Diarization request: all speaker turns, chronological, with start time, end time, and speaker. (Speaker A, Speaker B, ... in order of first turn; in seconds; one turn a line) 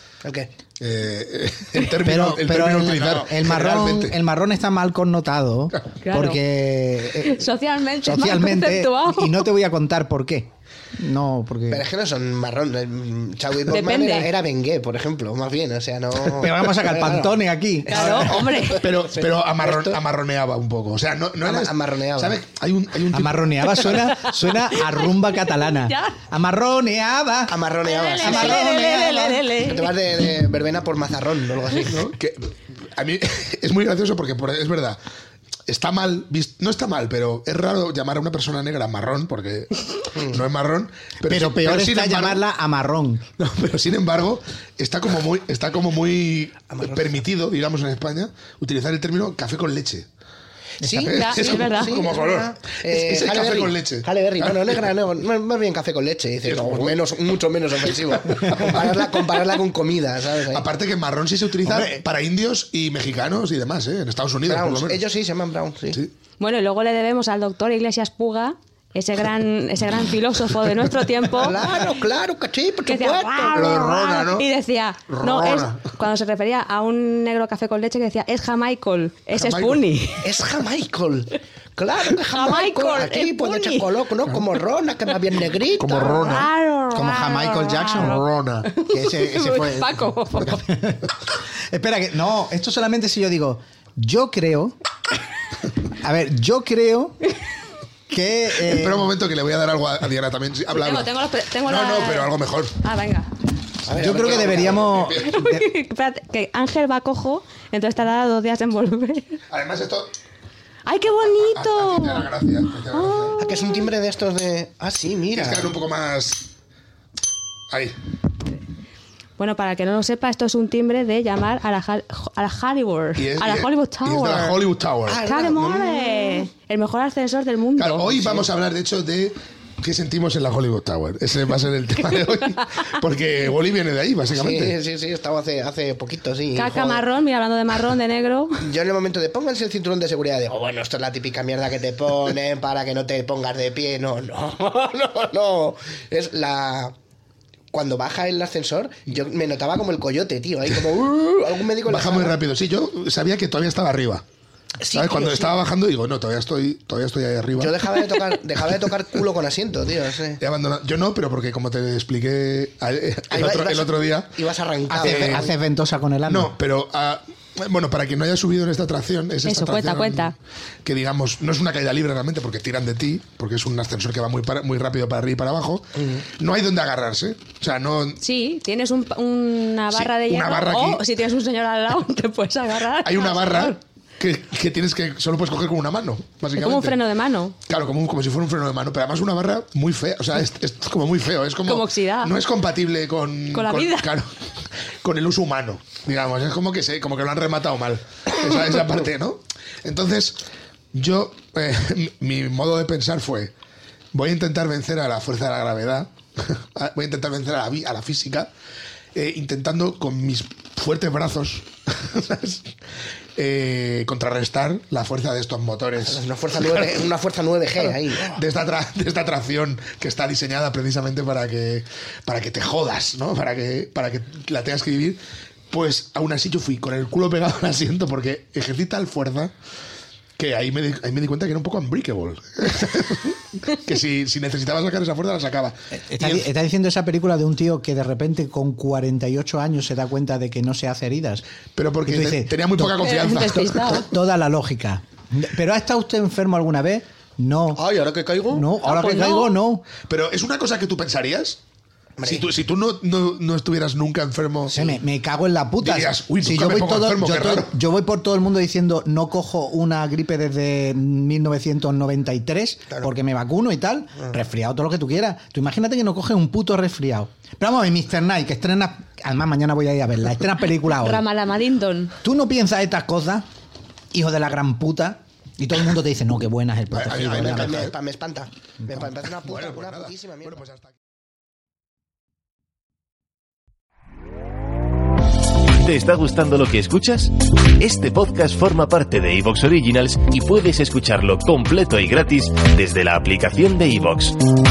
Speaker A: 0.2-0.5
Speaker B: 0.8-4.2
Speaker C: 2.0-7.4
Speaker A: 2.9-3.3
Speaker D: 6.0-6.4
Speaker D: 7.2-9.4
Speaker C: 8.1-11.9
Speaker A: 11.7-20.0
Speaker D: 13.7-14.3
Speaker C: 16.4-18.4
Speaker D: 17.9-18.9
Speaker B: 18.8-24.1
Speaker A: 21.4-22.4
Speaker C: 23.1-27.6
Speaker D: 25.7-26.1
Speaker A: 27.5-28.6
Speaker D: 27.8-30.0
Speaker C: 28.1-29.4
Speaker A: 29.6-32.1
Speaker B: 31.8-35.0
Speaker B: 35.7-42.5
Speaker A: 40.1-40.4
Speaker C: 41.2-43.3
Speaker B: 43.4-50.1
Speaker A: 46.7-47.2
Speaker A: 50.8-60.6
Speaker C: 50.8-51.1
Speaker B: 51.0-54.9
Speaker D: 51.1-52.1
Speaker B: 56.5-57.0
Speaker B: 60.5-65.1
Speaker C: 61.7-62.0
Speaker A: 64.5-66.0
Speaker D: 66.4-71.7
Speaker A: 71.3-73.6
Speaker D: 72.9-80.3
Speaker B: 73.5-74.5
Speaker B: 75.1-75.9
Speaker B: 79.3-79.8
Speaker A: 80.2-86.3
Speaker D: 82.2-83.9
Speaker B: 85.8-86.5
Speaker D: 86.0-90.7
Speaker C: 86.9-88.2
Speaker B: 88.0-88.7
Speaker C: 88.9-94.8
Speaker C: 95.9-97.2
Speaker C: 98.1-99.1
Speaker B: 98.6-101.1
Speaker D: 100.7-103.3
Speaker B: 101.7-102.8
Speaker A: 103.8-105.0
Speaker C: 103.9-105.7
Speaker B: 104.2-105.3
Speaker D: 105.1-109.4
Speaker B: 109.5-110.1
Speaker D: 110.9-112.3
Speaker B: 111.5-113.4
Speaker D: 112.9-113.8
Speaker A: 113.4-115.7
Speaker B: 115.3-116.5
Speaker D: 119.4-124.7
Speaker B: 123.2-125.3
Speaker A: 125.1-126.4
Speaker D: 125.2-128.2
Speaker B: 127.8-134.8
Speaker A: 134.3-137.1
Speaker D: 136.5-138.6
Speaker A: 138.6-146.9
Speaker A: 147.7-152.4
Speaker B: 151.8-154.2
Speaker A: 154.8-155.6
Speaker B: 154.9-158.0
Speaker A: 157.6-160.4
Speaker B: 160.4-165.4
Speaker A: 163.3-165.5
Speaker C: 164.9-166.5
Speaker B: 166.3-178.2
Speaker D: 169.4-170.3
Speaker D: 178.2-183.8
Speaker B: 179.9-181.1
Speaker B: 183.0-187.0
Speaker D: 186.6-187.6
Speaker B: 187.7-194.3
Speaker D: 191.6-192.4
Speaker D: 193.5-194.1
Speaker B: 195.0-200.4
Speaker B: 200.9-203.5
Speaker B: 204.1-208.5
Speaker B: 209.2-212.7
Speaker B: 213.4-217.1
Speaker A: 216.0-218.4
Speaker B: 217.8-229.5
Speaker B: 230.4-236.5
Speaker C: 236.1-241.4
Speaker B: 241.8-244.1
Speaker C: 242.1-243.1
Speaker D: 243.0-244.1
Speaker C: 243.9-247.8
Speaker A: 247.8-248.7
Speaker C: 248.5-249.8
Speaker D: 248.8-249.6
Speaker B: 250.1-251.6
Speaker A: 252.2-252.5
Speaker B: 252.2-254.8
Speaker A: 254.7-255.0
Speaker C: 254.7-271.2
Speaker B: 255.8-257.8
Speaker D: 270.9-272.1
Speaker C: 272.2-273.5
Speaker C: 274.1-277.9
Speaker B: 276.9-277.9
Speaker A: 277.3-280.6
Speaker B: 279.4-280.9
Speaker E: 285.8-287.1
Speaker E: 287.9-288.4
Speaker E: 289.3-290.0
Speaker E: 290.6-292.2
Speaker E: 292.9-293.4